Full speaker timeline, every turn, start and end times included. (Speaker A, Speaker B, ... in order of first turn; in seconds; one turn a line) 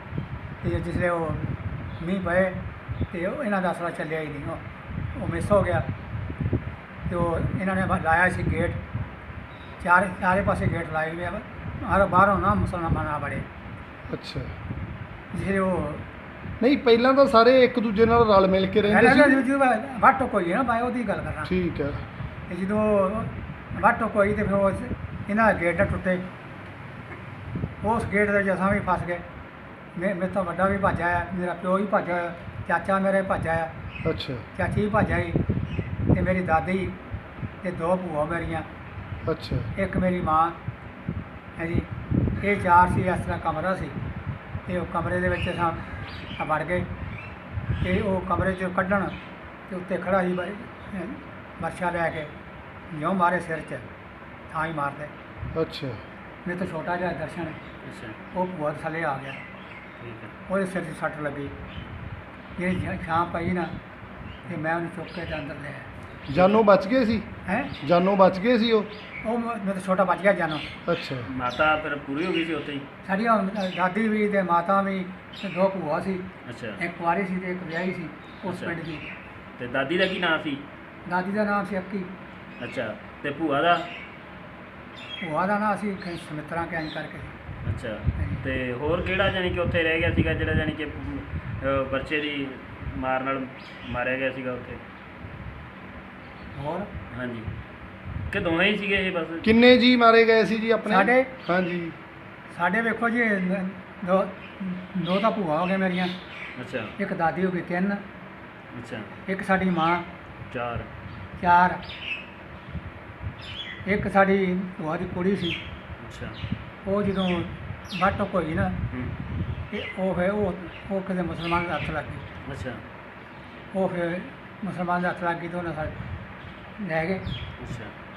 Speaker A: 0.6-5.9
Speaker A: 7.1-8.8
Speaker A: 9.8-13.5
Speaker B: 14.1-14.5
Speaker A: 15.3-16.1
Speaker B: 16.6-19.4
Speaker A: 18.9-21.5
Speaker B: 21.5-22.0
Speaker A: 22.5-26.2
Speaker A: 27.8-29.2
Speaker A: 30.0-33.7
Speaker B: 34.0-34.5
Speaker A: 34.5-35.4
Speaker A: 36.1-37.0
Speaker A: 37.6-38.7
Speaker B: 39.2-39.7
Speaker A: 39.8-40.6
Speaker A: 41.6-41.9
Speaker A: 42.4-44.0
Speaker A: 44.7-45.9
Speaker A: 46.4-46.9
Speaker A: 47.8-49.2
Speaker A: 49.7-52.3
Speaker A: 52.9-53.9
Speaker A: 54.5-55.1
Speaker B: 55.5-56.0
Speaker A: 56.4-57.6
Speaker C: 57.8-58.2
Speaker A: 58.3-59.4
Speaker C: 60.0-60.3
Speaker A: 60.5-61.5
Speaker A: 62.6-63.7
Speaker A: 64.5-65.9
Speaker B: 66.3-67.3
Speaker A: 67.5-67.7
Speaker B: 67.8-68.9
Speaker A: 69.2-70.7
Speaker B: 70.8-71.3
Speaker C: 71.3-72.9
Speaker A: 73.0-76.2
Speaker C: 76.4-76.8
Speaker A: 76.8-79.1
Speaker C: 78.5-78.8
Speaker C: 79.6-80.6
Speaker A: 81.1-82.1
Speaker C: 82.6-83.9
Speaker A: 85.2-87.3
Speaker C: 87.7-94.8
Speaker A: 96.5-96.9
Speaker C: 97.1-97.5
Speaker C: 98.3-99.5
Speaker B: 99.4-102.0
Speaker A: 100.8-101.3
Speaker A: 102.5-106.1
Speaker C: 106.6-106.9
Speaker A: 107.0-108.0
Speaker C: 108.8-109.1
Speaker A: 109.3-110.1
Speaker C: 110.5-110.9
Speaker A: 111.4-111.8
Speaker A: 113.8-115.6
Speaker C: 116.0-116.4
Speaker A: 116.8-118.8
Speaker A: 119.7-122.2
Speaker C: 122.5-122.8
Speaker A: 123.7-126.0
Speaker A: 126.8-127.3
Speaker C: 127.6-127.9